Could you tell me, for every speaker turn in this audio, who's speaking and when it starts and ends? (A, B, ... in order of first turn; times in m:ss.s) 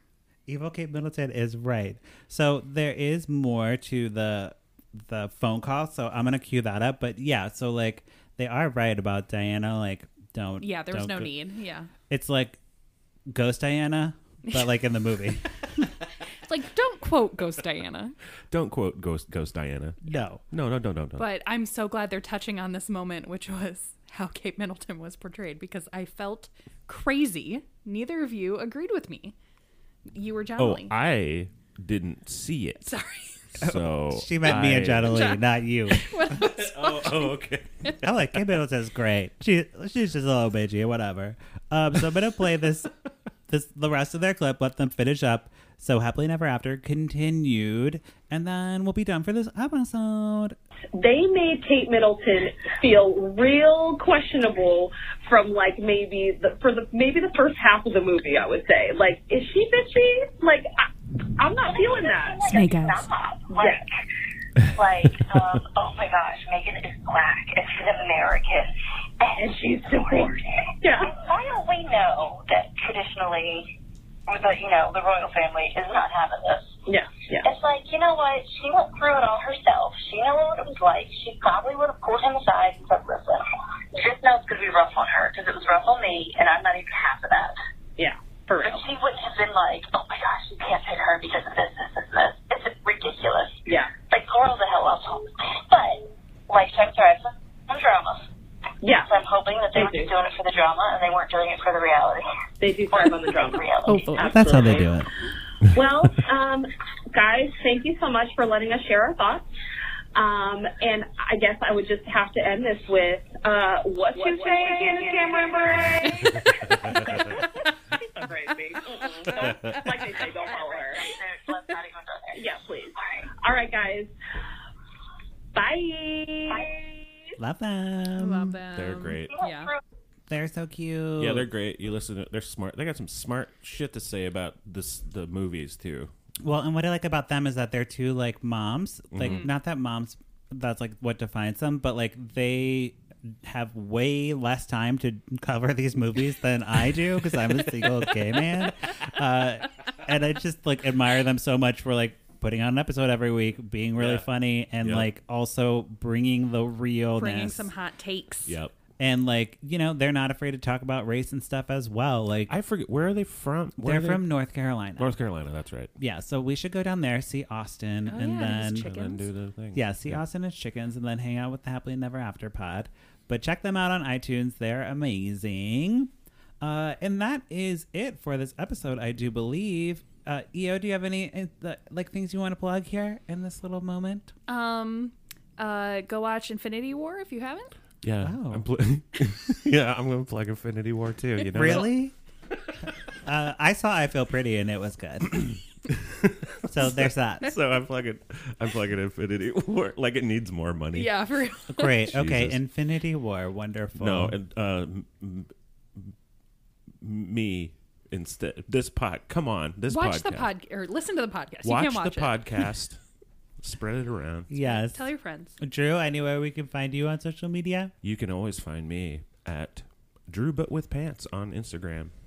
0:00.5-0:11.3 A
0:10.6-0:11.9 B
0:12.1-0:12.6 A
0:13.3-0:15.9 A
0:14.4-0:14.7 B
0:16.4-0:18.2 B
0:18.5-0:20.0 C
0:20.0-0:20.4 A
0:20.5-0:21.2 C
0:21.2-0:29.3 B
0:30.1-0:30.9 B
0:30.6-0:32.9 C
0:32.8-0:33.4 B
0:33.5-0:35.2 C
0:33.6-0:36.0 A
0:35.1-0:38.0 B
0:36.3-0:38.4 C
0:38.0-0:42.9 A
0:43.5-0:50.6 A
0:51.0-1:00.7 D
1:01.4-1:02.6 D
1:01.6-1:03.8 E
1:02.5-1:03.0 B
1:03.5-1:03.8 D
1:04.7-1:10.6 E
1:09.4-1:11.1 D
1:11.1-1:13.7 E
1:14.3-1:16.7 E
1:16.8-1:17.5 D
1:17.4-1:27.6 E
1:28.0-1:28.9 D
1:28.6-1:38.3 E
1:33.6-1:33.9 D
1:38.8-1:39.1 D
1:38.9-1:42.2 E
1:39.7-1:40.1 D
1:42.6-1:45.0 D
1:42.9-1:44.3 E
1:43.9-1:44.2 B
1:44.2-1:45.1 A
1:45.7-1:49.5 D
1:50.1-1:56.3 D
1:54.1-1:56.4 E
1:56.9-1:57.4 D
1:58.2-2:01.2 D
1:59.4-1:59.8 C
2:00.0-2:02.4 E
2:02.3-2:04.1 D
2:05.5-2:06.9 D
2:07.4-2:08.6 A
2:08.2-2:09.7 B
2:08.7-2:09.4 C
2:10.3-2:11.5 A
2:11.2-2:16.1 C
2:16.4-2:37.7 A
2:19.1-2:19.5 C
2:19.2-2:19.5 B
2:34.0-2:34.3 C
2:34.8-2:35.1 C
2:37.2-2:38.6 B
2:38.4-2:38.7 C
2:39.0-2:42.6 A
2:42.5-2:44.3 C
2:43.8-2:45.1 A
2:45.0-2:45.9 C
2:46.0-2:48.9 A
2:48.1-2:49.3 B
2:48.7-2:50.2 C
2:49.7-3:04.3 A
3:04.5-3:07.7 B
3:08.0-3:12.0 C
3:08.2-3:08.7 A
3:11.5-3:12.1 A
3:13.2-3:15.6 A
3:15.3-3:21.2 C
3:16.7-3:17.6 A
3:20.9-3:22.0 B
3:21.7-3:24.4 A
3:22.1-3:22.6 C
3:24.0-3:26.1 C
3:27.0-3:30.5 C
3:29.9-3:32.4 B
3:31.6-3:33.0 C
3:33.6-3:34.5 C
3:34.5-3:37.9 A
3:34.6-3:35.6 B
3:38.0-3:42.1 C